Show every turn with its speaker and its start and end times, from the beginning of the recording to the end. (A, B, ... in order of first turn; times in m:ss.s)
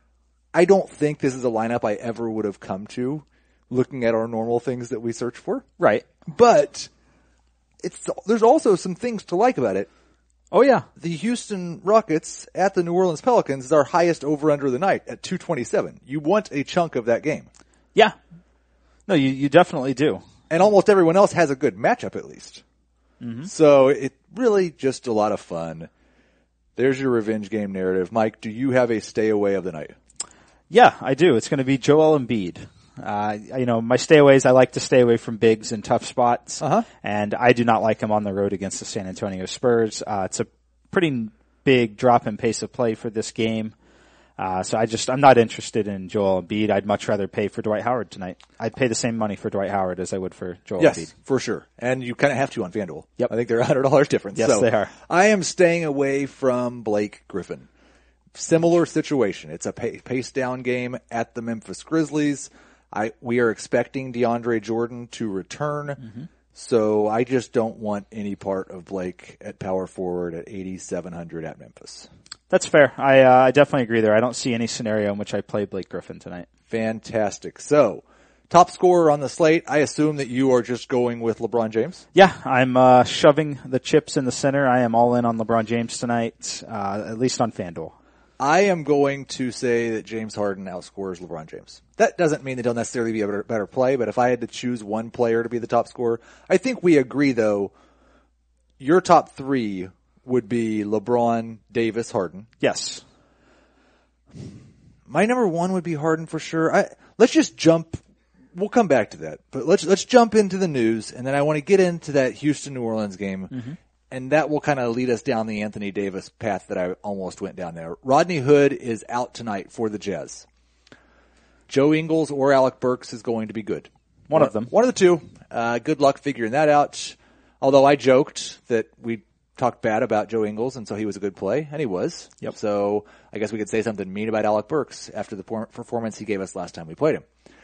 0:00.5-0:05.6 A
0:05.8-0:06.0 B
0:06.2-0:06.9 A
0:07.8-0:09.9 A
0:10.5-0:10.8 B
0:11.0-0:17.5 A
0:19.1-0:20.2 B
0:20.5-0:22.6 A
0:23.2-0:23.5 B
0:23.4-0:25.9 A
0:26.8-0:30.0 A
0:30.7-0:43.7 B
0:36.6-0:36.9 A
0:44.4-0:51.1 B
0:50.8-0:57.7 A
0:54.3-0:54.9 B
0:58.3-1:06.0 A
1:06.0-1:06.3 B
1:06.5-1:12.1 A
1:12.5-1:16.5 B
1:16.7-1:22.0 A
1:22.1-1:27.9 B
1:28.4-1:37.7 A
1:38.8-1:42.5 A
1:42.6-1:43.0 B
1:45.1-1:48.0 A
1:48.6-2:00.4 A
2:01.7-2:17.2 A
2:04.3-2:04.7 B